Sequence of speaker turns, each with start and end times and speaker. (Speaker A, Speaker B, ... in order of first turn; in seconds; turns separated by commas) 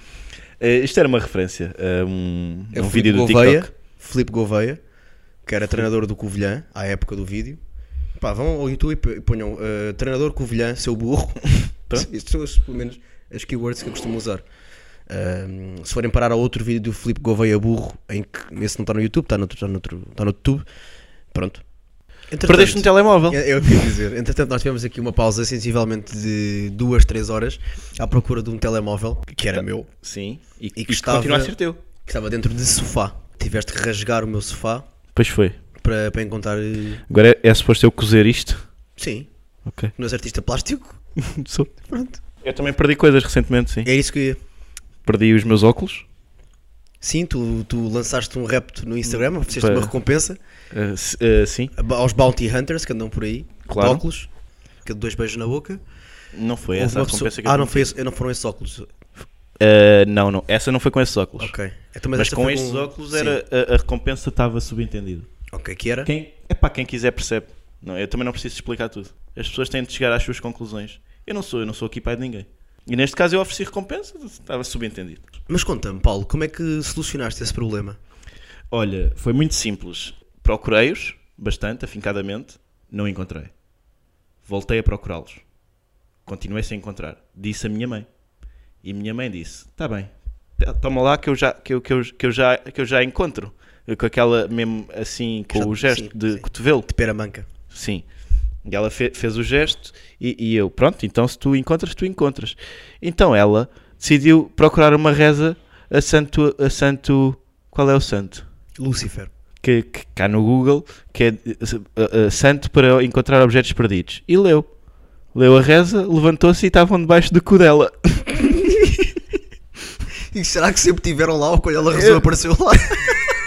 Speaker A: 0.6-3.7, Speaker B: 2.7-4.8, Speaker B: 5.5-7.6, Speaker B: 8.2-14.4, Speaker B: 15.1-20.6, Speaker B: 21.3-21.6, Speaker B: 22.3-29.9, Speaker A: 22.4-23.4, Speaker A: 29.5-31.8, Speaker B: 30.8-34.9, Speaker A: 35.1-35.6, Speaker B: 35.8-37.0, Speaker A: 37.1-38.6, Speaker B: 39.0-39.3, Speaker A: 39.6-39.9, Speaker B: 40.0-41.0, Speaker A: 41.2-41.7, Speaker B: 41.8-42.2, Speaker A: 42.4-43.9, Speaker B: 43.9-44.4, Speaker A: 45.0-46.1, Speaker B: 47.0-50.4, Speaker A: 49.1-49.9, Speaker A: 50.7-51.7, Speaker B: 51.8-54.3, Speaker A: 53.7-54.0, Speaker B: 54.9-55.8, Speaker A: 56.3-57.9, Speaker B: 56.7-58.9, Speaker A: 59.6-61.5, Speaker B: 61.4-63.4, Speaker A: 62.1-65.3, Speaker B: 65.5-66.1, Speaker A: 66.0-75.3, Speaker B: 75.5-78.0, Speaker A: 78.7-83.5, Speaker A: 84.5-85.4, Speaker A: 86.3-88.1, Speaker A: 88.8-96.9, Speaker B: 95.5-97.5, Speaker A: 97.7-98.1, Speaker A: 98.7-108.5, Speaker B: 108.8-109.3, Speaker A: 109.6-114.7, Speaker A: 115.3-118.5, Speaker B: 120.3-123.2, Speaker A: 121.9-122.3